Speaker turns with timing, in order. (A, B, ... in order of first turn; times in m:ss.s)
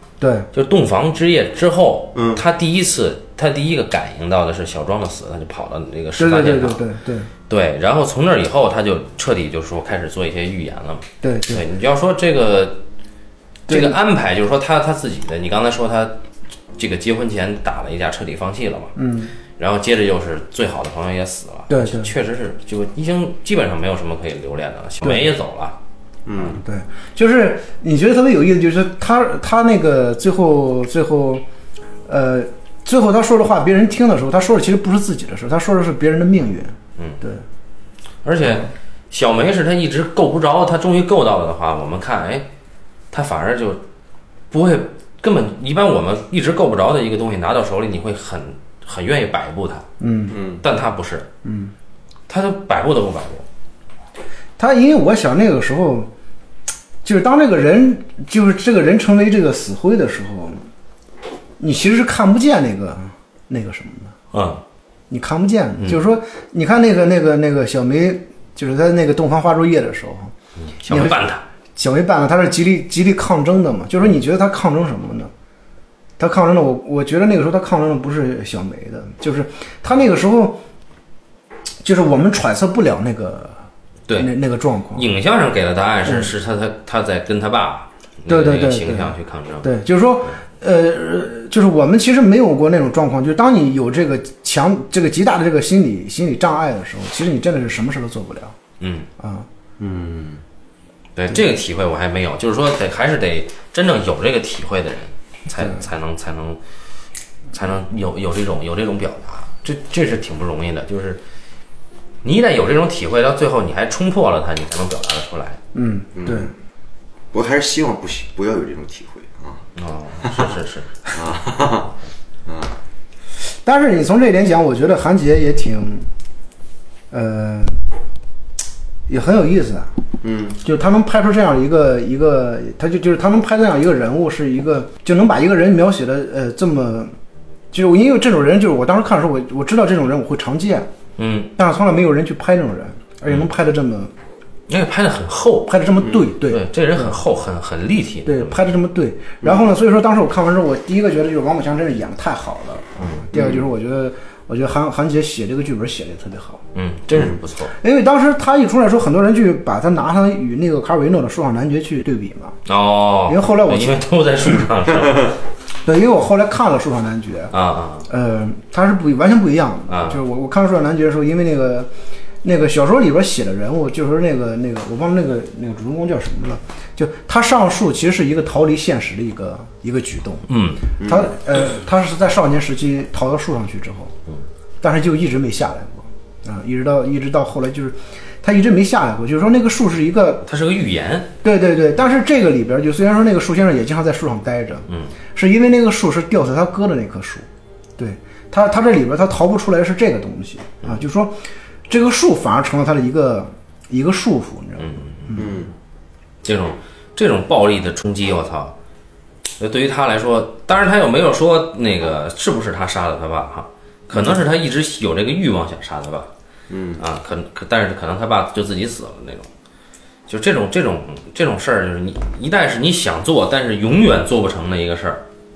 0:00.2-0:00.5 A
0:00.5-0:06.8 B
0:02.1-0:02.4 C
0:06.2-0:07.3 A
0:07.5-0:12.8 B
0:11.2-0:11.6 A
0:13.7-0:14.0 A
0:13.7-0:16.2 B
0:16.8-0:18.9 B
0:19.0-0:19.3 A
0:19.6-0:25.8 B
0:21.7-0:22.1 A
0:25.0-0:25.3 A
0:26.2-0:26.6 C
0:26.6-0:31.4 A
0:32.1-0:37.4 A
0:38.2-0:42.5 B
0:43.1-0:43.8 B
0:44.5-0:49.8 B
0:50.0-0:50.4 A
0:50.3-0:50.6 C
0:50.5-0:51.3 B
0:51.4-0:51.7 A
0:52.3-0:53.4 B
0:54.6-0:56.1 A
0:57.0-1:00.6 A
1:01.6-1:04.1 A
1:04.3-1:04.6 B
1:05.1-1:10.3 A
1:10.6-1:11.4 B
1:10.9-1:11.2 A
1:11.8-1:15.3 A
1:16.2-1:20.6 A
1:21.8-1:23.6 A
1:24.1-1:25.0 A
1:24.9-1:29.7 B
1:26.0-1:26.3 A
1:28.3-1:38.6 A
1:38.8-1:39.1 B
1:39.2-1:39.5 A
1:39.8-1:40.4 C
1:41.2-1:46.6 B
1:47.5-1:51.2 B
1:52.2-1:55.6 B
1:55.7-1:56.5 A
1:56.2-1:56.5 C
1:57.3-1:59.6 C
1:59.8-2:01.0 B
2:00.2-2:00.5 C
2:01.1-2:01.9 C
2:02.4-2:02.7 C
2:03.6-2:06.1 A
2:07.1-2:07.8 A
2:09.1-2:09.9 A
2:10.2-2:10.6 C
2:10.6-2:17.1 A
2:17.7-2:20.9 A
2:21.2-2:21.5 B
2:21.6-2:24.1 A
2:24.7-2:25.7 B
2:25.6-2:27.2 A
2:26.4-2:28.6 B
2:28.2-2:36.6 A
2:36.7-2:37.7 B
2:37.8-2:42.6 A
2:42.6-2:45.4 B
2:43.3-2:44.0 A
2:45.8-2:47.5 A
2:47.5-2:48.1 B
2:48.1-2:51.9 A
2:49.9-2:50.2 B
2:52.4-3:00.5 A
3:00.5-3:00.8 B
3:01.0-3:01.3 C
3:01.0-3:04.1 A
3:04.8-3:10.4 A
3:10.4-3:11.3 B
3:11.4-3:17.4 A
3:18.0-3:25.5 A
3:24.8-3:25.4 B
3:25.4-3:25.7 C
3:26.4-3:28.7 B
3:29.6-3:36.3 B
3:36.7-3:37.0 C
3:37.0-3:39.5 B
3:40.3-3:45.2 B